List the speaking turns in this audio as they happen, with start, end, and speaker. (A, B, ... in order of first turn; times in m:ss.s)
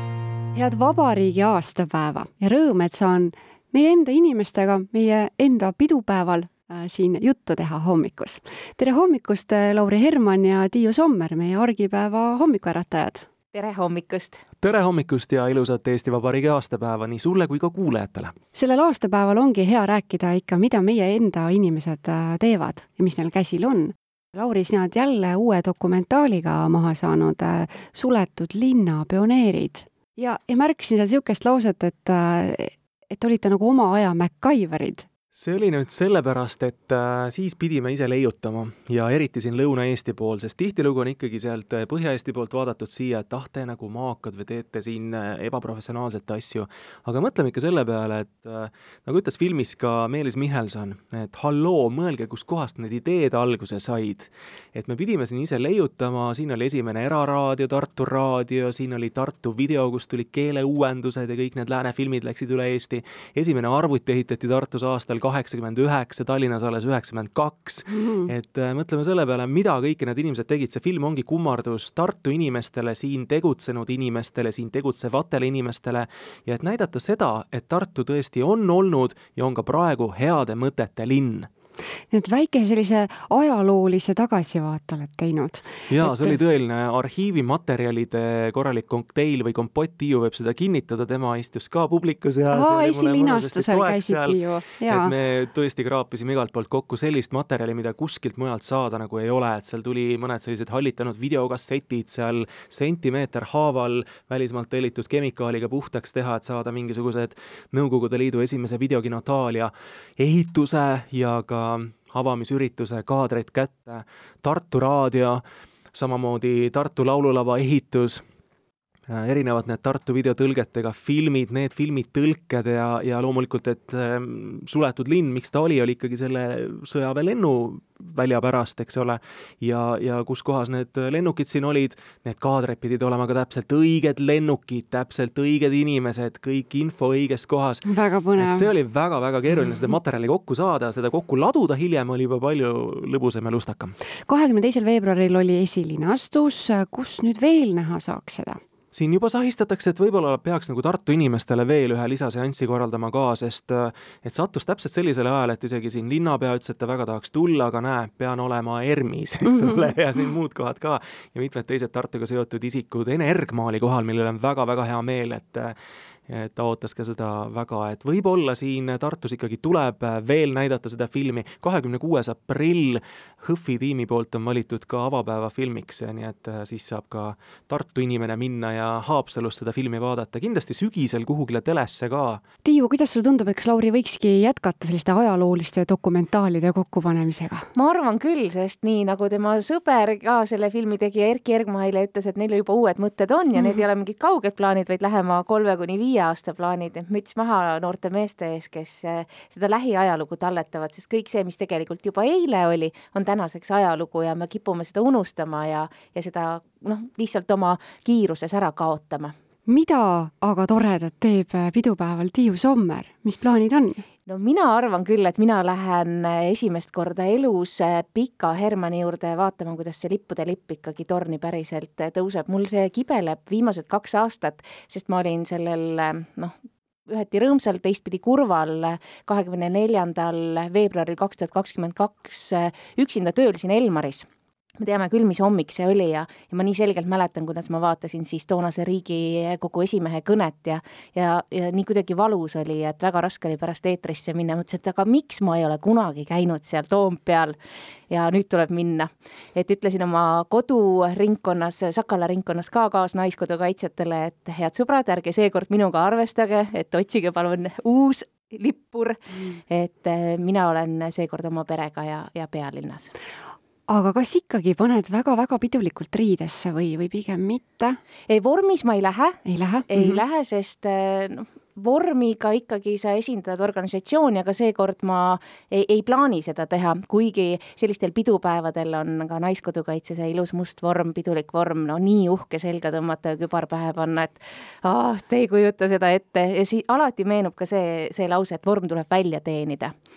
0:00.6-0:13.3 A
0:13.5-0:14.4 B
0:14.6-0:18.3 C
0:18.5-0:35.0 A
0:35.3-1:21.5 C
1:22.1-1:26.4 A
1:25.9-1:55.4 C
1:32.5-1:35.1 A
1:55.9-1:58.2 C
1:59.1-2:17.9 C
2:17.9-2:18.7 A
2:18.4-2:24.0 C
2:24.3-2:28.6 A
2:28.9-2:45.8 C
2:46.3-3:02.4 C
3:02.6-3:07.6 A
3:07.7-3:29.3 B
3:29.7-3:34.0 A
3:34.3-3:46.5 B
3:47.1-3:54.3 B
3:54.8-4:07.6 B
4:08.1-4:23.1 B
4:23.9-4:28.0 A
4:28.3-4:49.9 B
4:29.4-4:30.2 A